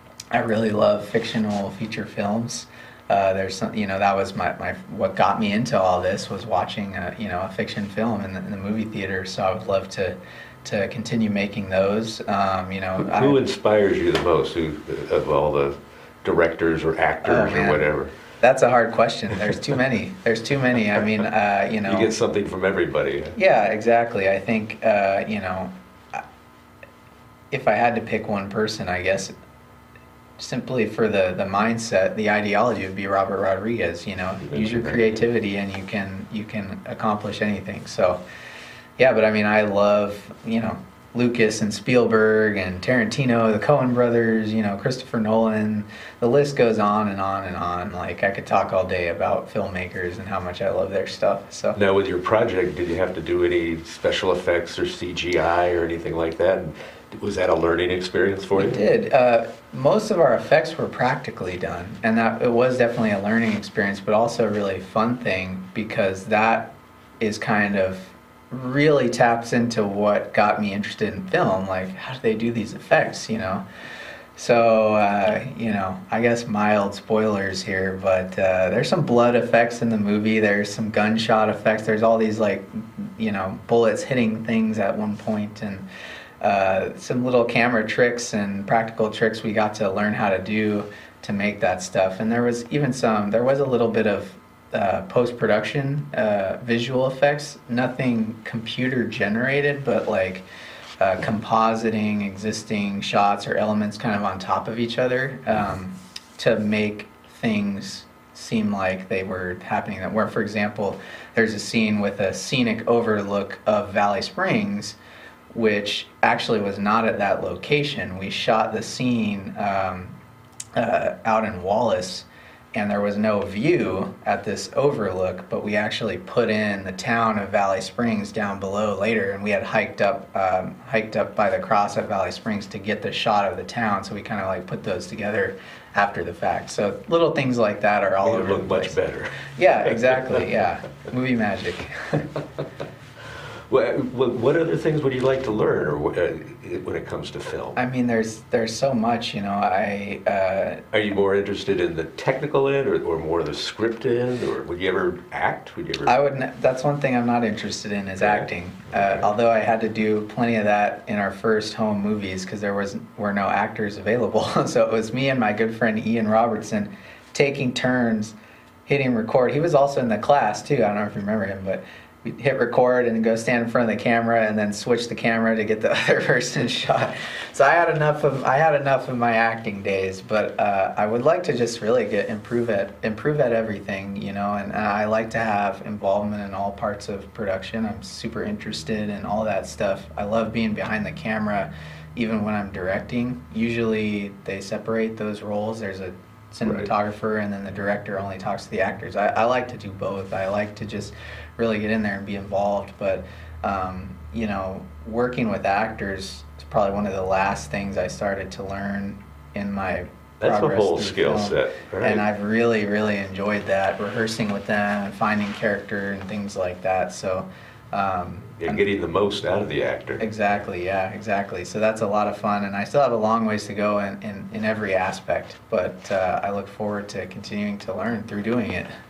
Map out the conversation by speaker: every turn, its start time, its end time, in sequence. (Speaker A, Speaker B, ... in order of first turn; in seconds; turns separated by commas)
Speaker A: 0.3-13.4, Speaker B: 13.0-18.1, Speaker A: 17.2-22.1, Speaker B: 21.9-23.4, Speaker A: 23.3-26.2, Speaker A: 27.5-29.3, Speaker A: 30.4-38.2, Speaker B: 34.4-35.2, Speaker A: 39.0-51.8, Speaker B: 51.8-58.8, Speaker A: 58.5-73.6, Speaker A: 74.3-85.8, Speaker A: 86.4-100.4, Speaker A: 101.0-115.0, Speaker A: 115.5-120.1, Speaker A: 120.8-142.3, Speaker B: 138.2-140.5, Speaker B: 143.7-147.8, Speaker A: 147.8-150.8, Speaker B: 150.9-156.1, Speaker A: 156.0-168.3, Speaker B: 158.2-159.2, Speaker A: 168.8-218.8, Speaker B: 196.6-196.9, Speaker B: 210.4-212.2, Speaker B: 218.6-220.2, Speaker A: 220.2-228.9